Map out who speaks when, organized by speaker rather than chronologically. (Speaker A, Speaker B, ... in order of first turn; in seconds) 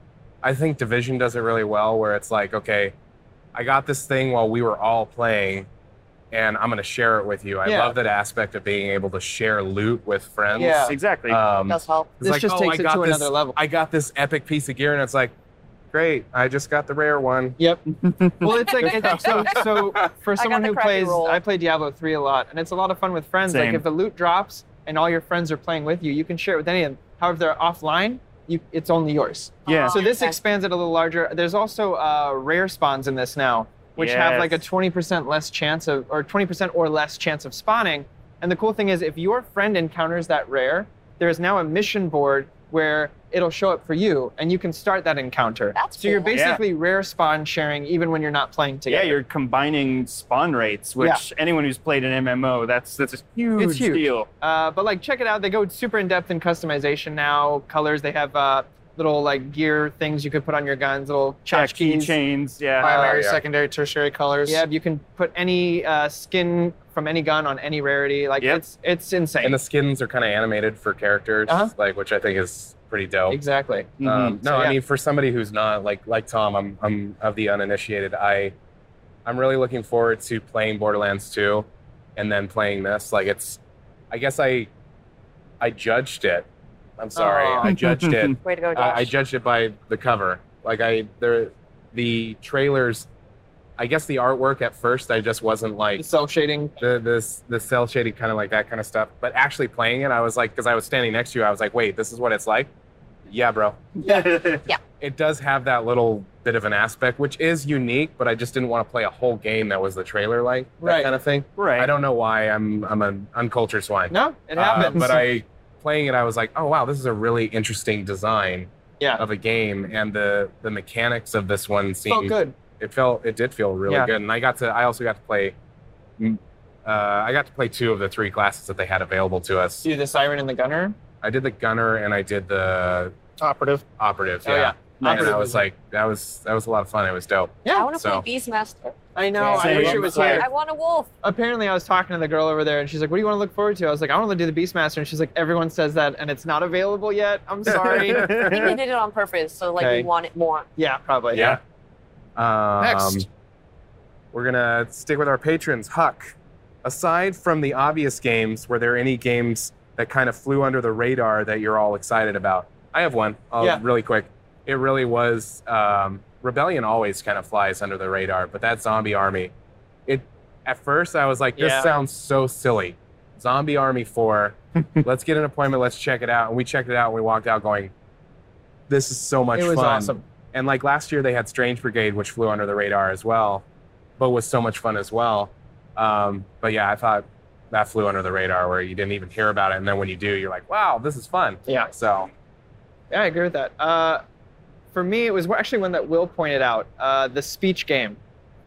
Speaker A: 0.4-2.9, 3.5-5.7, 6.3-15.3, 15.9-17.6, 19.1-19.4, 62.8-63.4, 69.4-73.4, 74.0-78.5, 79.2-83.6, 84.1-84.7, 85.6-86.5, 87.0-93.1, 93.8-96.0, 96.8-102.7, 103.3-103.8, 105.0-125.5, 126.2-129.8, 131.2-133.1, 134.0-138.2, 139.7-139.9, 147.7-148.7, 151.3-151.6, 152.3-153.2, 154.3-169.5, 170.1-177.9, 178.9-183.6, 184.2-192.3
Speaker B: 7.6-8.0, 10.5-10.9, 12.2-13.6, 17.6-17.8, 18.4-49.2, 51.0-51.2, 53.6-62.1, 62.8-63.1, 64.5-69.6, 71.5-71.7, 73.3-74.8, 87.2-87.7, 96.0-96.7, 110.8-111.1, 114.1-115.2, 122.1-122.5, 129.8-130.9, 134.4-135.6, 137.6-137.9, 139.1-140.5, 141.2-148.7, 149.8-150.1, 150.8-151.6, 171.6-171.9, 179.5-180.2, 191.7-191.9, 193.1-194.2, 194.9-198.2
Speaker C: 10.6-11.4, 17.9-19.4, 23.5-23.8, 29.7-30.0, 34.0-34.6, 46.3-46.6, 48.9-54.3, 61.5-63.1, 74.0-74.4, 87.6-88.4, 104.0-104.6, 111.5-111.9, 135.0-135.5, 139.4-140.4, 147.7-148.8
Speaker D: 11.7-12.1, 18.9-19.3, 20.4-21.4, 29.6-30.4, 45.7-46.3, 88.4-89.1, 137.7-139.0, 139.8-141.1, 148.4-150.7
Speaker E: 62.8-64.6, 133.4-133.8, 152.8-153.3